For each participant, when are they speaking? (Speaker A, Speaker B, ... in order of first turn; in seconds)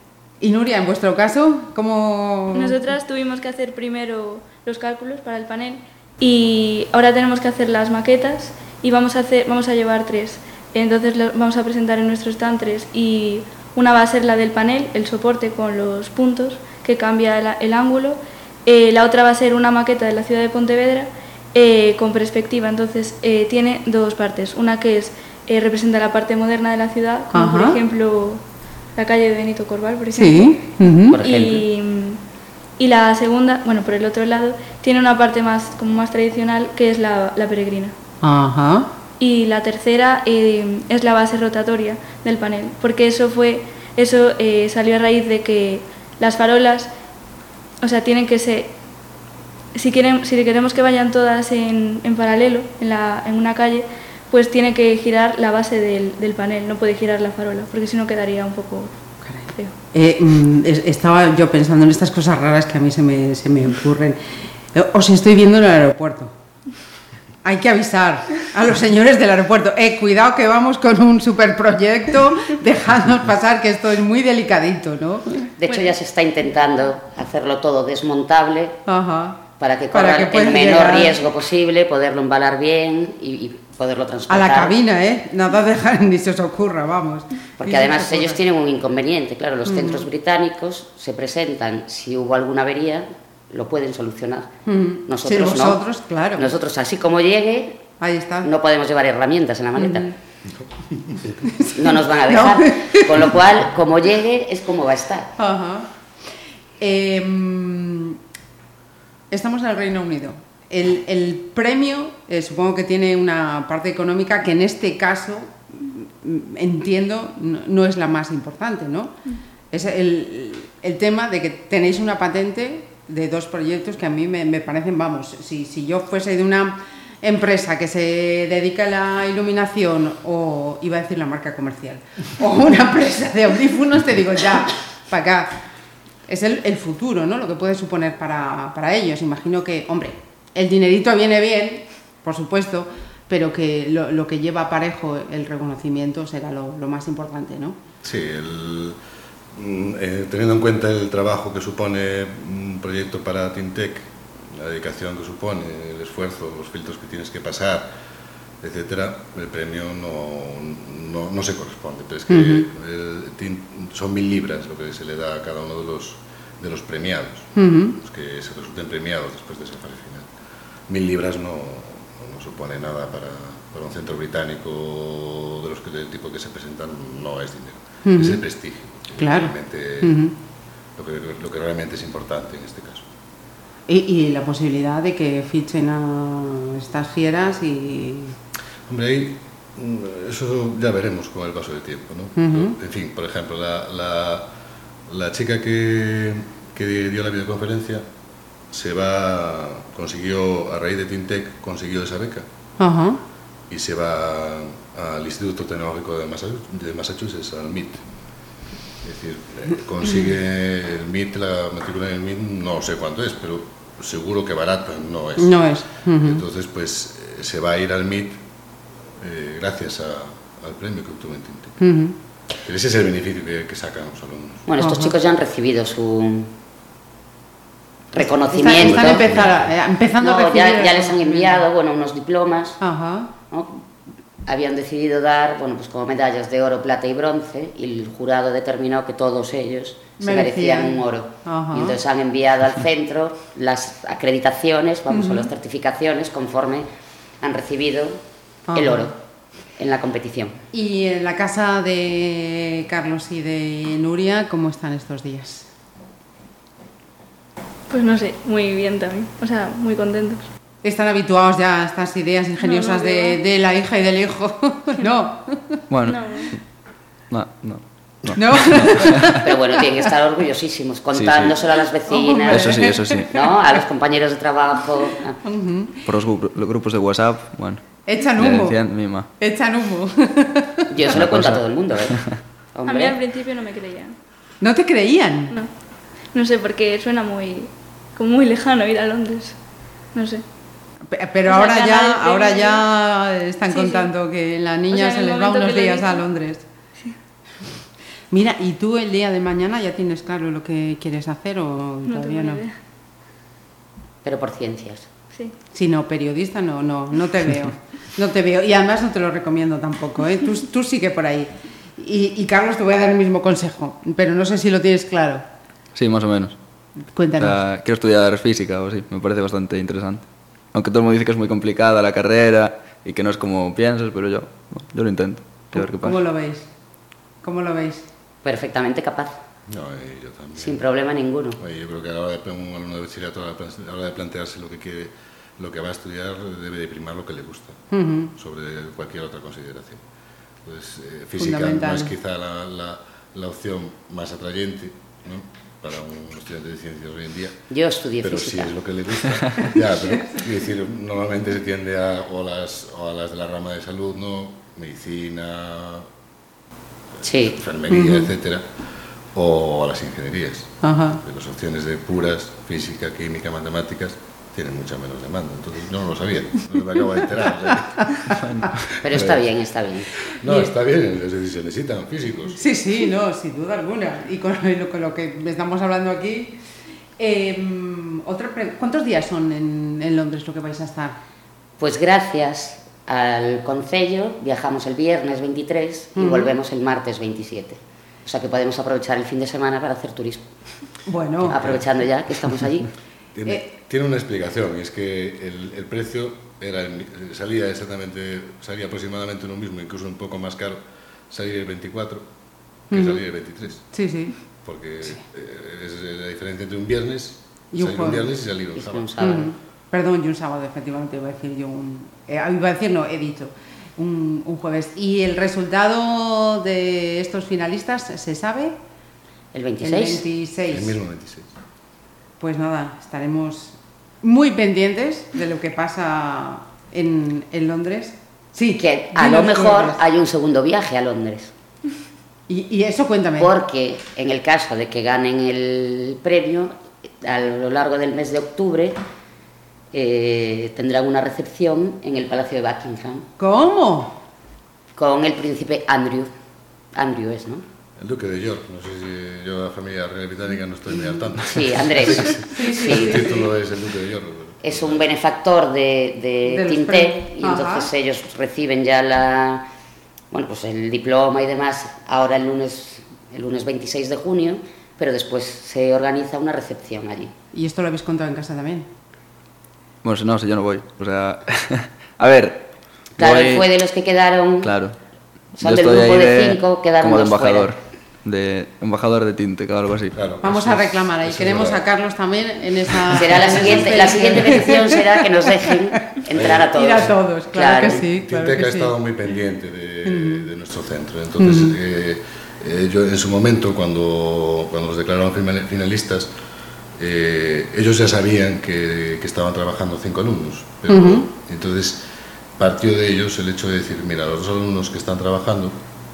Speaker A: 0.4-2.8, 27.3-27.8, 30.1-31.2, 38.2-38.9, 59.2-66.3, 67.4-75.5, 78.9-81.2, 84.3-88.4, 89.7-90.0, 94.7-96.5, 98.0-98.5, 99.8-100.1, 101.4-103.3, 105.4-105.9, 106.8-108.2, 109.3-119.2, 119.7-135.6, 136.3-147.8, 162.3-162.7, 167.6-168.0, 178.1-178.4, 179.2-180.3, 183.9-188.4, 192.4-192.8, 202.8-203.2, 215.4-216.4, 221.8-222.2, 224.8-225.1, 228.2-231.6, 232.8-233.3, 240.2-242.0, 245.1-245.5, 248.7-249.1, 250.7-255.7, 260.8-265.8, 268.4-269.6, 272.1-273.4, 275.4-276.1, 278.1-278.8, 279.4-281.1, 284.6-285.6, 291.1-296.6, 298.3-302.6, 305.7-315.4, 317.1-317.6, 325.7-326.7, 327.4-328.1, 337.9-338.3, 341.4-342.1, 357.9-358.3, 360.8-361.2, 367.8-368.4, 370.5-370.7, 372.6-376.6, 377.2-381.2, 386.2-386.6, 391.1-391.7, 402.9-403.2, 403.9-404.4, 407.7-408.2, 409.2-418.8, 419.8-420.9, 422.4-430.0, 432.5-433.5, 443.4-444.2, 452.5-453.5, 456.5-457.9, 467.5-468.9, 480.4-486.2, 486.7-488.9, 490.1-490.5, 491.4-491.8, 500.9-501.3
Speaker B: 2.5-28.4, 28.9-30.6, 31.2-32.2, 32.8-37.9, 39.2-46.9, 47.8-48.7, 49.7-58.9, 257.9-260.4, 262.6-263.4, 266.1-266.5, 282.9-284.2, 285.5-289.6, 290.1-290.4, 291.4-292.9, 293.7-294.1, 294.9-296.2, 302.1-302.8
Speaker C: 31.1-31.6, 75.6-78.8, 79.6-84.8, 87.6-94.5, 95.1-95.8, 96.3-97.8, 98.4-100.1, 101.7-105.3, 224.7-226.5, 228.1-229.4, 230.2-232.8, 233.5-233.9, 234.4-246.9, 247.4-248.2, 248.8-249.2, 249.8-250.6, 269.4-275.4, 280.9-283.2, 304.2-305.1, 328.4-329.4, 330.6-331.6, 347.7-348.7, 357.2-357.6, 369.0-370.1, 381.8-390.5, 391.4-392.9, 408.8-409.5, 419.5-420.3, 428.8-431.5, 433.4-439.0, 439.9-443.3, 445.0-446.3, 446.9-447.6, 451.4-453.4, 454.6-459.7, 460.3-467.3, 473.2-474.7, 475.6-477.7, 483.1-488.0
Speaker D: 148.0-149.0, 149.5-158.0, 158.6-170.3, 170.9-180.2, 181.0-183.1, 188.9-194.5, 195.1-198.1, 198.7-202.5, 203.7-208.1, 209.0-218.4, 219.2-221.8, 222.6-224.7, 228.9-229.6, 329.7-330.8, 331.6-337.8, 338.4-340.0, 340.6-347.6, 348.2-356.1, 357.4-358.8, 359.3-368.3, 369.1-369.5, 370.2-372.7, 393.4-402.3, 402.9-403.9, 404.6-409.1, 420.7-421.5, 448.0-455.1, 480.1-481.8, 483.2-484.3, 486.3-486.7, 487.8-496.3, 497.0-502.0, 502.6-505.8
Speaker E: 265.9-266.6, 267.3-269.4, 271.1-271.6, 272.5-273.3, 276.1-279.3, 281.1-281.6, 315.9-316.6, 317.4-326.2, 368.3-368.9, 470.0-473.6, 474.6-474.9, 475.6-480.2